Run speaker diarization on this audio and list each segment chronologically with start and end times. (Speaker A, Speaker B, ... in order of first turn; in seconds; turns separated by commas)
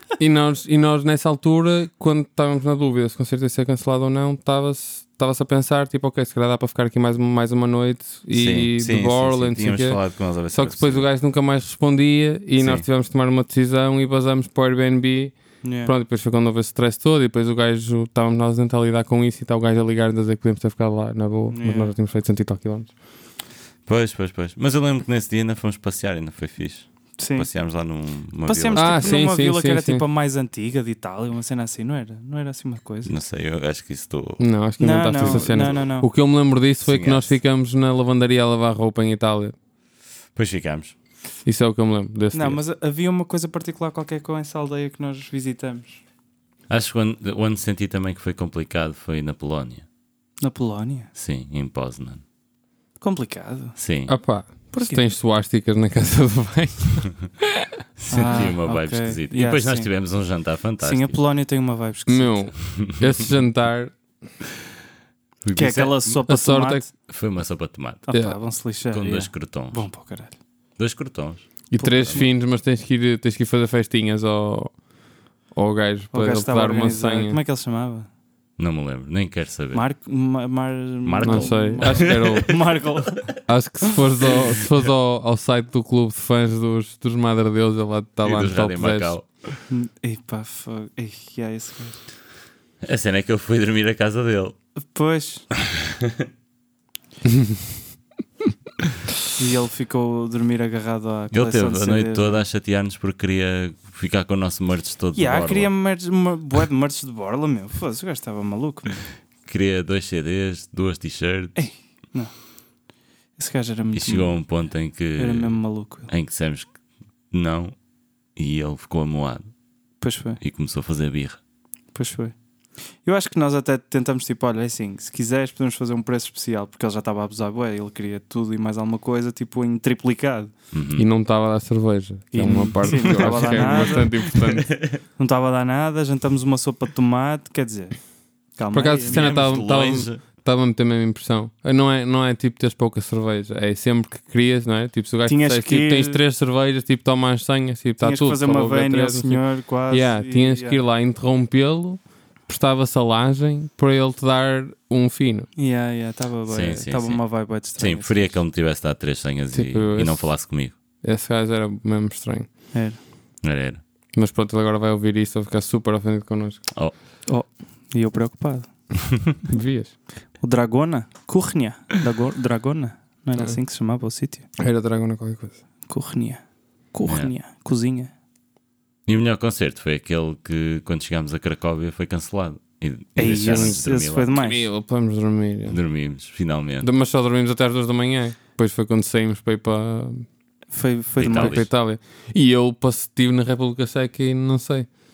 Speaker A: 0.2-22.9, Speaker B: 8.3-11.1, Speaker B: 12.6-12.9, Speaker C: 15.6-15.9, Speaker C: 21.5-21.9, Speaker B: 23.9-29.2, Speaker C: 27.2-27.7, Speaker C: 28.4-33.1, Speaker A: 28.7-30.0, Speaker B: 33.0-34.4, Speaker A: 34.4-39.5, Speaker C: 34.8-36.1, Speaker B: 35.2-35.8, Speaker B: 36.8-37.3, Speaker B: 40.3-40.9, Speaker A: 41.4-42.6, Speaker C: 42.3-46.0, Speaker B: 46.7-49.8, Speaker C: 50.4-51.1, Speaker B: 51.1-52.2, Speaker C: 53.0-53.8, Speaker B: 53.8-54.1, Speaker A: 54.1-57.1, Speaker C: 54.7-55.0, Speaker B: 58.0-61.2, Speaker C: 58.1-59.9, Speaker C: 60.8-62.5, Speaker A: 62.1-63.9, Speaker B: 62.8-63.2, Speaker B: 65.4-66.2, Speaker C: 65.5-66.9, Speaker A: 66.3-66.9, Speaker B: 67.1-68.0, Speaker C: 68.1-70.3, Speaker A: 68.1-68.4, Speaker B: 68.9-69.8, Speaker B: 70.8-71.5, Speaker A: 71.7-74.8, Speaker C: 71.8-72.3, Speaker A: 75.5-77.4, Speaker C: 76.1-78.1, Speaker B: 78.6-79.8, Speaker C: 79.7-83.4, Speaker B: 81.0-82.6, Speaker A: 81.2-82.5, Speaker A: 83.5-89.2, Speaker B: 88.2-89.5, Speaker C: 89.7-92.0, Speaker B: 92.8-94.5, Speaker C: 94.8-95.5, Speaker B: 95.8-96.2, Speaker A: 97.3-97.5, Speaker C: 99.4-102.4, Speaker B: 101.3-105.7, Speaker C: 105.1-109.0, Speaker B: 109.5-111.7, Speaker C: 111.5-112.3, Speaker C: 113.4-116.1, Speaker B: 113.9-116.7, Speaker B: 117.3-117.8, Speaker B: 118.3-119.5, Speaker C: 120.0-120.4, Speaker B: 120.4-121.4, Speaker C: 121.9-122.3, Speaker C: 123.0-130.5, Speaker B: 130.7-131.1, Speaker A: 130.9-134.7, Speaker C: 132.3-134.4, Speaker B: 133.1-135.0, Speaker C: 135.2-138.0, Speaker C: 138.6-139.3, Speaker A: 138.7-155.5, Speaker B: 139.0-140.2, Speaker C: 145.2-146.2, Speaker C: 148.0-150.8, Speaker C: 155.6-158.4, Speaker B: 156.5-160.7, Speaker A: 159.5-160.4, Speaker A: 161.0-162.5, Speaker C: 162.7-163.0, Speaker B: 163.4-163.8, Speaker A: 164.1-166.6, Speaker C: 167.3-168.7, Speaker A: 169.5-169.9, Speaker C: 170.4-174.4, Speaker A: 174.6-175.6, Speaker C: 175.9-176.4, Speaker C: 176.9-178.1, Speaker B: 177.1-177.3, Speaker B: 179.1-184.3, Speaker C: 183.2-184.6, Speaker A: 183.4-185.8, Speaker B: 185.7-186.9, Speaker A: 186.8-190.2, Speaker C: 190.7-191.7, Speaker B: 191.2-191.7, Speaker A: 191.3-194.9